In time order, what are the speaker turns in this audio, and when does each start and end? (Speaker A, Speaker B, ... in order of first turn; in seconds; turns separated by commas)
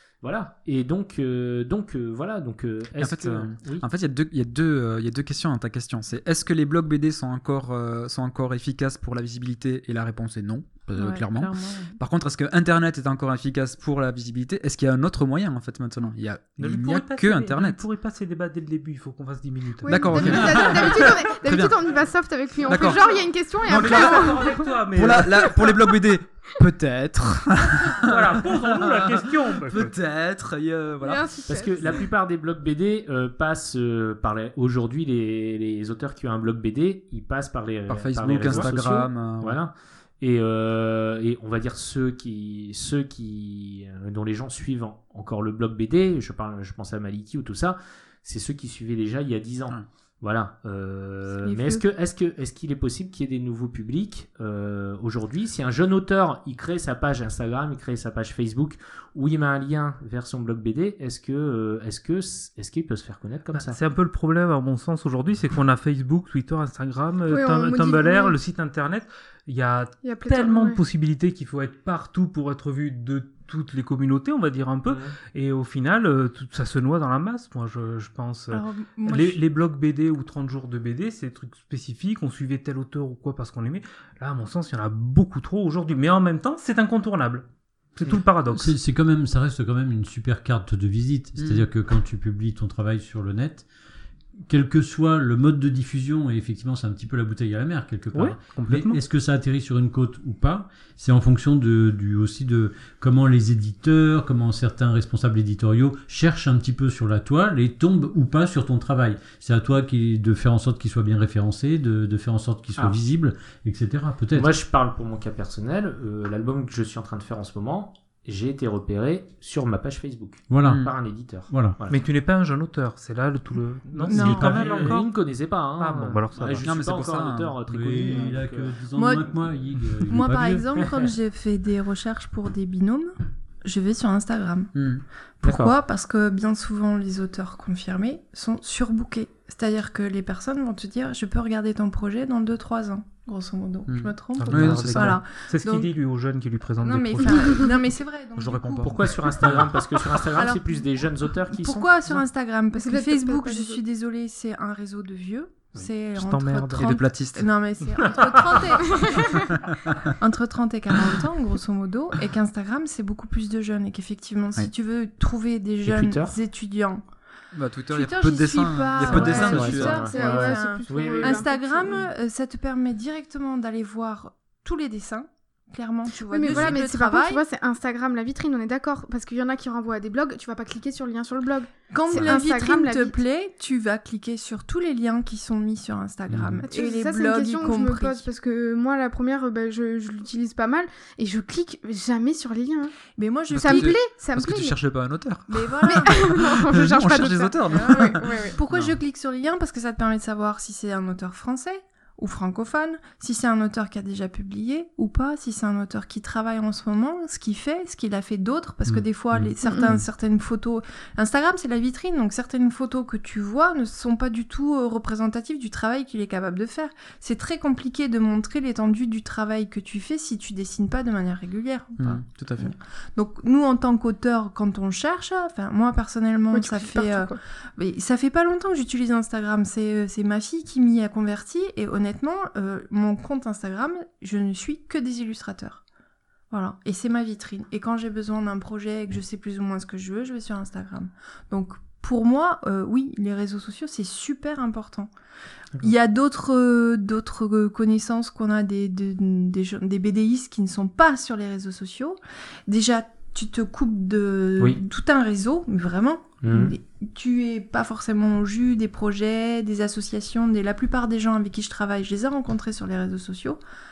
Speaker A: 0.2-3.8, Speaker B: 3.0-17.8, Speaker C: 11.0-12.0, Speaker D: 16.6-20.9, Speaker E: 19.8-24.6, Speaker B: 19.9-21.9, Speaker B: 22.6-32.0, Speaker D: 23.7-25.6, Speaker D: 28.0-29.9, Speaker E: 31.0-32.0, Speaker A: 31.5-63.8, Speaker B: 37.9-39.6, Speaker F: 38.2-38.7, Speaker C: 51.4-51.8, Speaker D: 63.5-87.5, Speaker E: 67.3-68.4, Speaker E: 70.0-70.8, Speaker A: 74.9-75.1, Speaker C: 78.5-79.4, Speaker D: 88.0-88.8, Speaker F: 88.5-93.7, Speaker B: 91.4-91.7, Speaker F: 94.5-114.5, Speaker D: 98.1-99.0, Speaker A: 114.3-122.0, Speaker F: 120.5-120.9, Speaker B: 120.6-120.9, Speaker F: 121.5-121.8, Speaker D: 121.9-125.1, Speaker F: 124.1-125.0, Speaker C: 124.1-124.7, Speaker A: 124.1-128.8, Speaker D: 125.8-126.7, Speaker B: 126.6-127.6, Speaker F: 127.7-130.7, Speaker C: 128.9-129.5, Speaker C: 130.1-133.1, Speaker C: 133.6-134.7, Speaker B: 134.7-135.0, Speaker C: 135.4-145.9, Speaker A: 135.4-135.7, Speaker B: 143.9-145.2, Speaker F: 144.4-145.0, Speaker D: 144.4-147.7, Speaker C: 146.8-149.0, Speaker B: 148.4-149.0, Speaker A: 148.8-152.2, Speaker C: 150.4-150.8, Speaker C: 151.5-159.5, Speaker E: 152.8-153.8, Speaker D: 156.1-157.0, Speaker B: 156.8-157.5, Speaker D: 158.1-158.6, Speaker E: 158.9-159.5, Speaker C: 160.2-167.0, Speaker A: 165.8-166.3, Speaker B: 167.5-170.1, Speaker C: 167.9-177.4, Speaker A: 169.1-172.1, Speaker E: 169.2-171.7, Speaker E: 176.3-183.2, Speaker C: 181.9-188.3, Speaker B: 186.3-186.6, Speaker E: 186.7-193.0, Speaker C: 193.2-194.0, Speaker B: 193.5-199.0, Speaker E: 193.6-194.8, Speaker C: 195.5-196.3, Speaker E: 195.9-198.6, Speaker C: 197.7-235.8, Speaker E: 209.6-209.9, Speaker B: 222.0-222.7, Speaker E: 226.5-227.4, Speaker C: 236.5-245.1, Speaker C: 245.8-263.6, Speaker A: 256.4-256.7